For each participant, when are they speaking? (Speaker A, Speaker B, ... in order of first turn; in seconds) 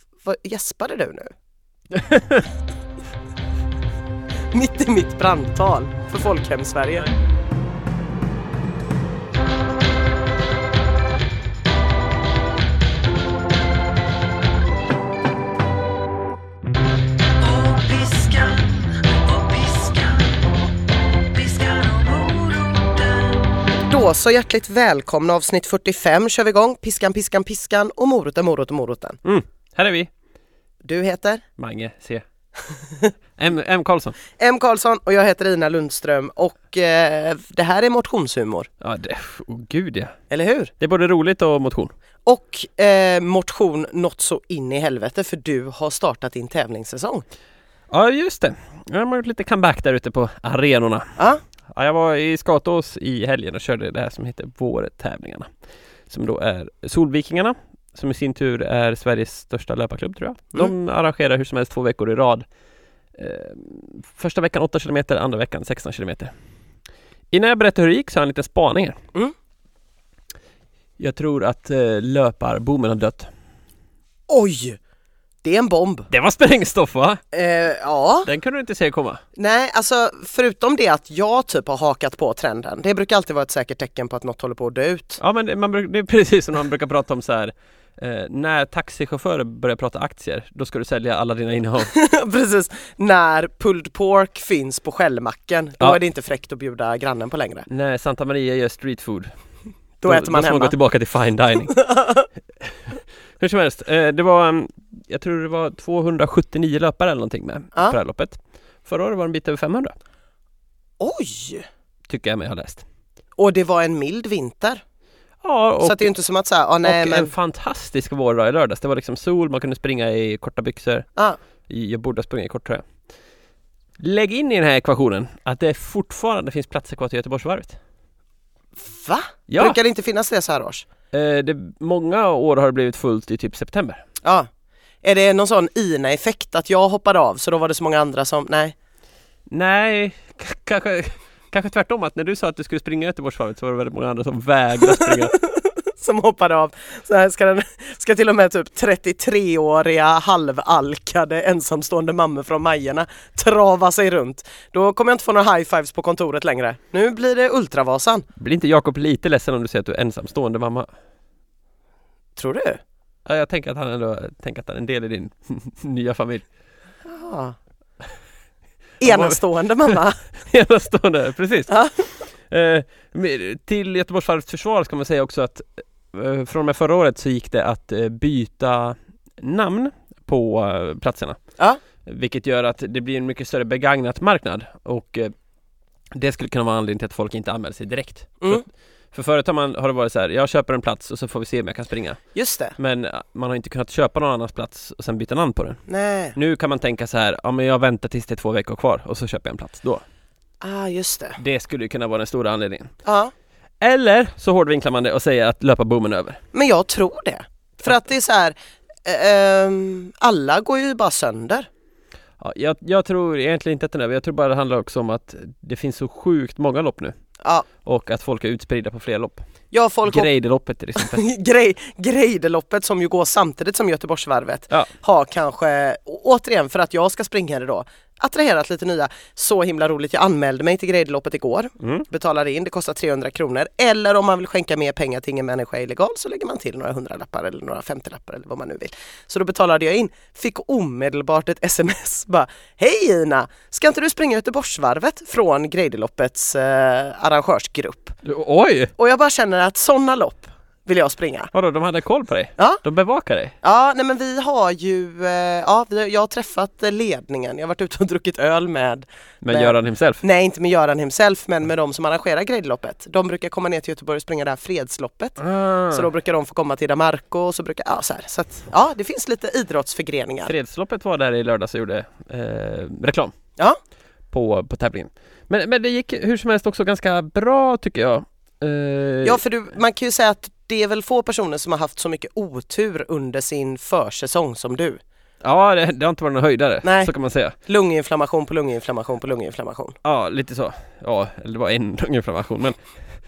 Speaker A: 0.2-1.3, 4.5-7.1, 17.5-18.9, 23.9-29.2, 30.8-31.4, 32.8-33.1, 34.4-38.7, 40.3-40.7, 42.2-47.2, 51.2-51.4, 74.3-74.8, 75.4-76.1, 77.3-78.3, 79.3-85.2, 91.8-97.7, 100.0-100.8, 101.7-102.3, 111.0-111.7, 113.4-114.8, 115.8-117.3, 128.8-130.9, 135.0-138.7, 144.8-158.2, 162.4-162.8, 167.1-167.6, 169.0-170.2, 171.7-172.0, 192.3-192.8, 195.9-196.4, 200.6-201.4, 203.0-203.3, 206.5-211.7, 217.4-217.7, 219.7-220.3, 220.9-248.2, 249.0-251.5, 253.6-265.4, 265.9-270.5, 279.2-285.0, 286.8-287.1, 287.6-289.9
Speaker B: 1.9-2.5, 29.2-30.1, 31.6-32.2, 33.4-34.1, 38.8-40.1, 40.8-41.9, 47.9-51.1, 51.7-55.5, 56.1-62.5, 63.1-66.3, 67.3-69.0, 71.0-73.3, 76.1-77.2, 78.2-79.2, 85.2-91.9, 97.7-99.3, 100.0-101.8, 102.6-109.9, 112.1-112.8, 115.4-116.1, 116.8-121.1, 121.7-122.8, 124.0-127.8, 129.5-129.8, 131.1-134.0, 139.5-145.3, 158.4-160.9, 163.2-166.4, 169.0-171.8, 172.4-181.4, 182.1-185.3, 186.1-188.6, 189.1-192.2, 192.8-195.8, 196.3-200.0, 201.4-202.9, 203.8-206.4, 212.4-217.1, 217.8-219.4, 220.1-221.2, 231.8-232.1, 248.2-248.9, 251.5-253.6, 259.4-260.2, 265.4-266.1, 270.4-273.3, 274.3-279.4, 285.4-287.6, 290.0-292.8